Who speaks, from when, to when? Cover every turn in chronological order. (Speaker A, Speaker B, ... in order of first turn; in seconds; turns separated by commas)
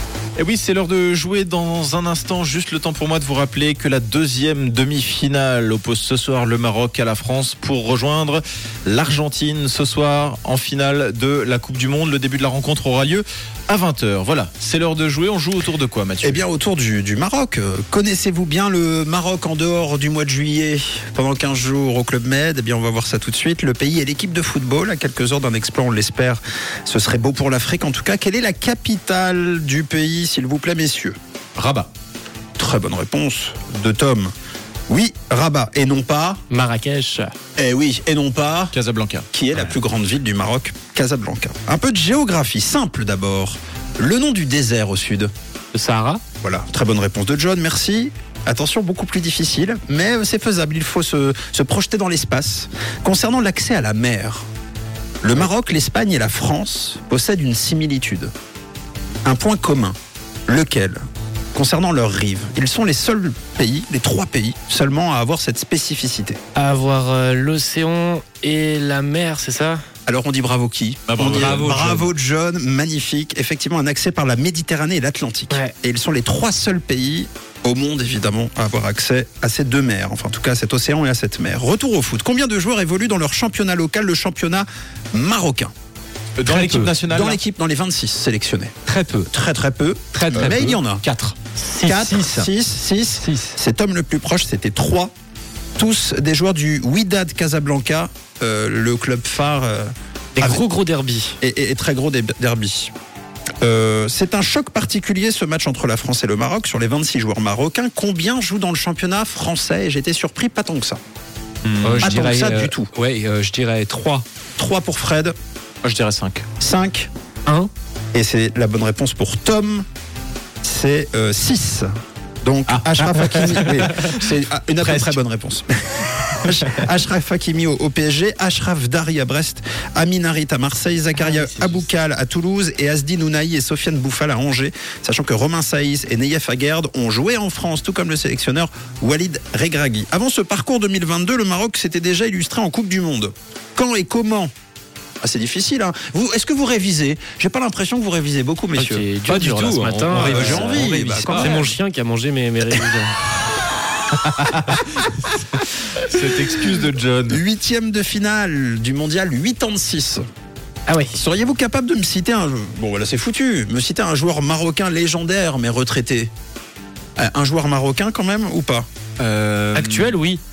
Speaker A: 0.3-16.4, Speaker B: 16.2-31.9, Speaker B: 32.6-34.3, Speaker B: 34.9-36.4, Speaker C: 36.5-37.3, Speaker B: 37.6-38.7, Speaker A: 38.7-39.2, Speaker B: 39.3-45.3, Speaker C: 45.7-46.2, Speaker B: 46.4-54.5, Speaker B: 55.2-58.3, Speaker B: 59.2-60.0, Speaker B: 60.5-61.0, Speaker B: 61.5-66.4, Speaker C: 66.5-69.8, Speaker B: 70.1-85.7, Speaker A: 71.1-71.7, Speaker D: 71.4-72.1, Speaker A: 86.4-87.4, Speaker D: 86.5-86.9, Speaker B: 87.0-88.7, Speaker D: 88.8-89.3, Speaker B: 89.3-91.0, Speaker D: 90.1-92.5, Speaker B: 91.8-95.1, Speaker D: 93.2-93.6, Speaker B: 95.8-100.6, Speaker C: 100.4-101.3, Speaker B: 101.4-102.9, Speaker B: 103.6-111.0, Speaker A: 111.7-112.1, Speaker D: 111.8-114.2, Speaker B: 112.0-112.9, Speaker B: 114.6-115.3, Speaker A: 115.8-116.5, Speaker B: 116.6-117.1, Speaker B: 118.1-119.8, Speaker B: 120.6-121.9, Speaker B: 122.4-144.5, Speaker A: 122.7-124.1, Speaker A: 124.8-125.2, Speaker A: 126.5-126.8, Speaker C: 131.3-131.8, Speaker B: 145.2-149.1, Speaker C: 148.8-153.3, Speaker D: 149.2-151.5, Speaker A: 150.1-151.0, Speaker B: 150.1-151.7, Speaker A: 155.9-157.4, Speaker B: 157.3-160.2, Speaker C: 160.9-161.2, Speaker B: 161.1-166.3, Speaker B: 167.2-168.9, Speaker A: 169.2-170.1, Speaker C: 169.7-170.4